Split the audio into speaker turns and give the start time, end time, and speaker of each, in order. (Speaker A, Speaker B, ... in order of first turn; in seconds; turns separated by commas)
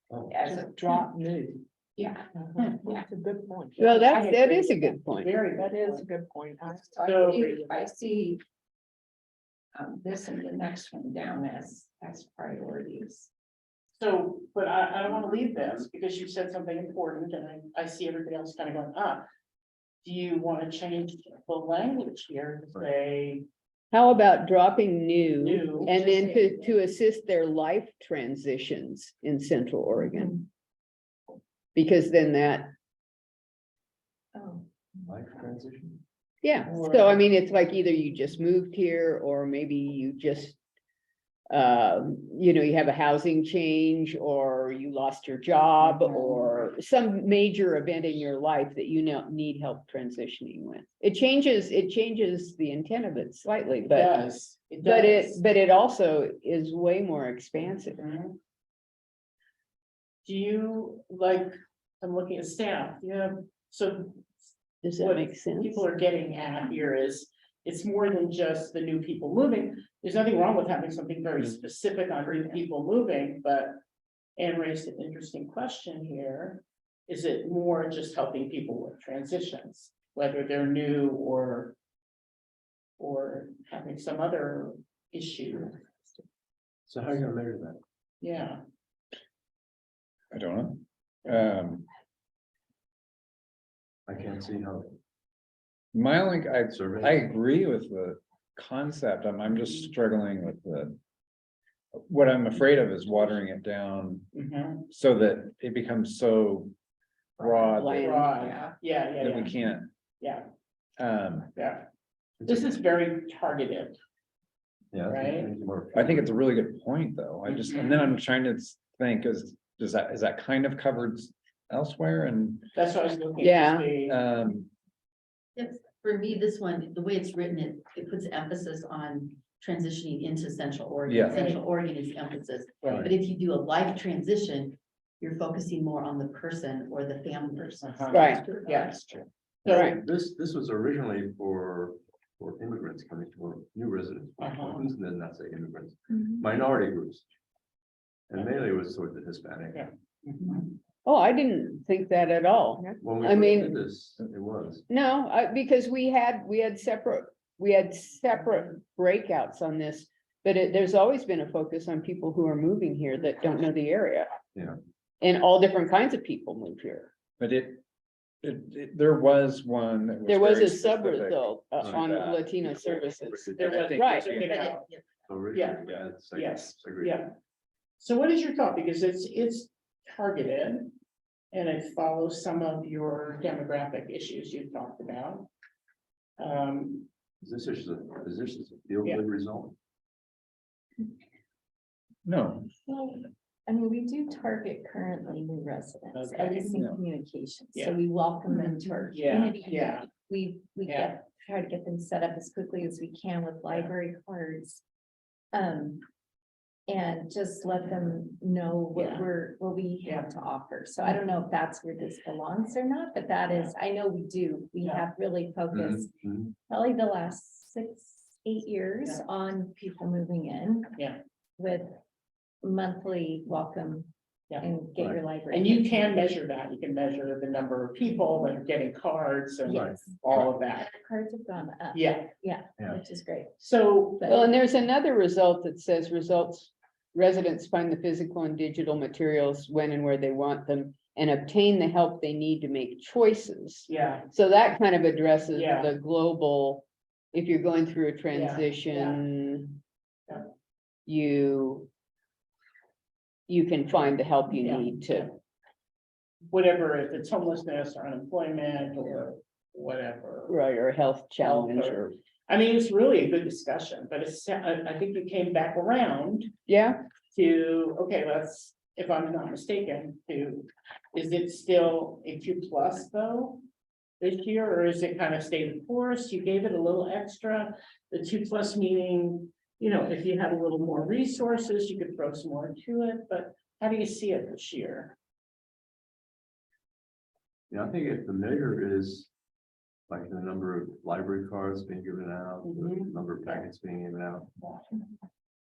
Speaker A: 0.1-0.5, Speaker B: 0.3-1.6, Speaker C: 2.0-2.2, Speaker B: 2.3-4.4, Speaker D: 2.6-2.9, Speaker E: 3.8-5.3, Speaker D: 4.1-6.1, Speaker B: 5.5-8.1, Speaker D: 7.0-7.6, Speaker C: 7.7-8.3, Speaker C: 9.9-12.5, Speaker D: 14.0-19.2, Speaker D: 20.0-23.4, Speaker E: 23.9-30.5, Speaker D: 25.4-26.0, Speaker E: 31.8-32.7, Speaker C: 34.4-34.6, Speaker A: 35.0-36.0, Speaker E: 36.4-40.6, Speaker E: 41.5-54.2, Speaker D: 53.9-55.4, Speaker E: 54.8-58.0, Speaker D: 58.0-58.4, Speaker D: 60.2-73.8, Speaker E: 64.8-65.9, Speaker D: 74.4-81.7, Speaker D: 83.0-85.8, Speaker A: 86.9-87.8, Speaker D: 88.2-88.6, Speaker F: 90.3-91.9, Speaker A: 94.1-95.0, Speaker F: 95.9-101.0, Speaker A: 96.7-97.3, Speaker F: 102.1-104.3, Speaker D: 104.3-104.9, Speaker F: 104.9-106.7, Speaker F: 107.4-108.2, Speaker E: 107.7-108.3, Speaker D: 107.9-109.5, Speaker F: 109.2-109.9, Speaker D: 110.2-110.5, Speaker F: 111.0-111.5, Speaker D: 111.6-111.8, Speaker A: 112.4-112.7, Speaker D: 112.5-114.0, Speaker A: 114.9-116.4, Speaker D: 115.1-115.5, Speaker F: 115.9-122.7, Speaker D: 117.5-118.1, Speaker D: 122.8-124.2, Speaker E: 123.4-123.9, Speaker F: 124.1-124.7, Speaker G: 125.6-138.8, Speaker F: 131.1-131.5, Speaker D: 137.8-140.0, Speaker E: 138.1-138.4, Speaker A: 139.6-147.3, Speaker D: 144.4-144.8, Speaker A: 148.3-149.9, Speaker D: 149.7-150.7, Speaker E: 151.1-153.8, Speaker A: 153.0-154.8, Speaker E: 154.9-164.3, Speaker E: 165.2-167.1, Speaker F: 167.4-167.8, Speaker F: 168.4-172.4, Speaker E: 170.3-174.3, Speaker A: 171.8-172.1, Speaker A: 173.2-173.8, Speaker D: 173.6-174.9, Speaker F: 173.7-174.6, Speaker G: 174.3-175.0, Speaker A: 175.3-177.2, Speaker D: 175.5-177.3, Speaker D: 178.0-180.9, Speaker D: 181.5-185.5, Speaker D: 186.4-187.1, Speaker A: 187.4-189.8, Speaker F: 192.2-192.7, Speaker C: 192.9-204.8, Speaker D: 196.1-196.8, Speaker D: 198.5-200.1, Speaker D: 200.9-201.2, Speaker C: 205.5-206.0, Speaker C: 206.9-220.9, Speaker D: 208.9-209.3, Speaker D: 210.0-210.3, Speaker D: 213.4-213.7, Speaker A: 215.7-216.5, Speaker C: 221.6-221.9, Speaker C: 222.6-226.4, Speaker A: 225.0-225.2, Speaker D: 225.5-230.9, Speaker C: 229.7-233.5, Speaker A: 229.7-230.1, Speaker D: 231.9-232.3, Speaker A: 232.8-233.1, Speaker D: 233.6-234.3, Speaker C: 234.2-234.5, Speaker E: 234.2-249.8, Speaker D: 243.9-244.3, Speaker D: 245.5-245.9, Speaker D: 248.3-249.2, Speaker E: 251.1-251.9, Speaker E: 253.5-255.3, Speaker D: 254.6-255.3, Speaker D: 256.5-260.6, Speaker E: 260.5-262.2, Speaker D: 261.4-266.5, Speaker E: 266.7-267.0, Speaker D: 267.3-273.6, Speaker D: 274.2-285.1, Speaker A: 287.7-289.3, Speaker A: 290.1-294.5, Speaker D: 292.6-293.7, Speaker D: 294.6-294.9